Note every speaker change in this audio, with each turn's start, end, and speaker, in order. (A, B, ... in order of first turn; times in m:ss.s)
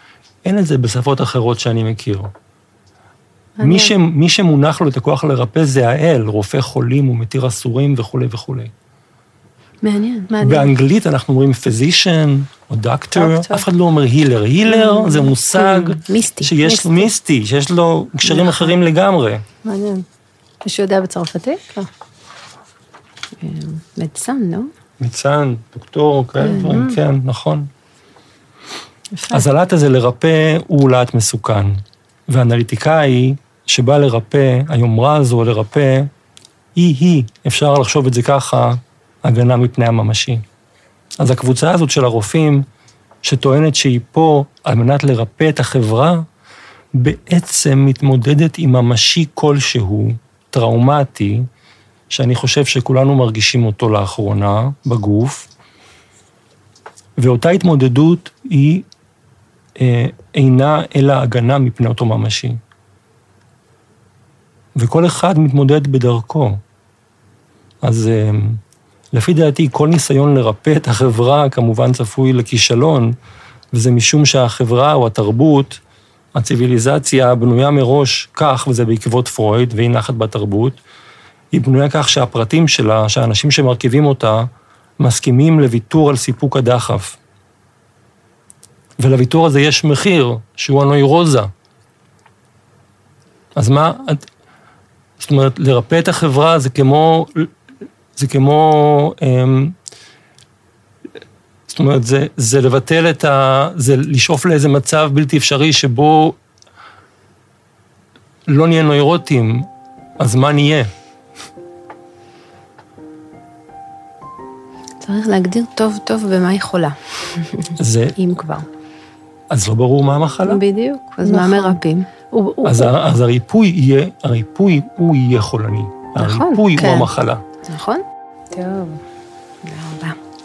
0:00.4-0:02.3 A
0:03.6-0:03.9 B
0:03.6-0:08.7 A
0:09.8-0:10.3 C
0:10.3-0:10.7 B
0:10.4-0:19.4 A
0:13.1-0:13.6 B
0:14.7-0:17.1 C
0:18.2-0:18.7 C
0:19.6-0:20.0 B
0:20.6-0:21.9 B
0:23.4-0:24.7 C
0:25.0-0:27.7 A
0:26.4-0:26.8 C
0:26.6-0:27.0 B
0:29.1-0:29.4 B
0:29.3-0:36.1 A
0:36.7-0:40.4 A
0:41.2-0:42.6 A
0:43.2-0:46.2 A
0:46.9-0:51.4 A
0:52.1-0:55.5 A
0:57.2-0:58.8 A
0:59.8-1:02.6 A
1:04.7-1:06.6 A
1:07.8-1:08.6 A
1:09.1-1:13.1 A
1:13.7-1:15.8 A
1:16.3-1:20.8 A
1:21.5-1:27.2 A
1:29.0-1:31.5 A
1:33.5-1:34.3 A
1:35.2-1:37.5 A
1:38.2-1:39.8 A
1:41.7-1:46.4 A
1:48.5-1:49.7 A
1:50.2-1:50.9 A
1:55.0-1:58.7 C
1:57.8-1:58.1 A
1:59.5-2:00.6 A
2:00.4-2:02.1 C
2:01.2-2:02.9 B
2:02.6-2:07.4 A
2:06.2-2:06.7 C
2:06.8-2:07.1 B
2:07.6-2:09.0 C
2:09.6-2:10.2 C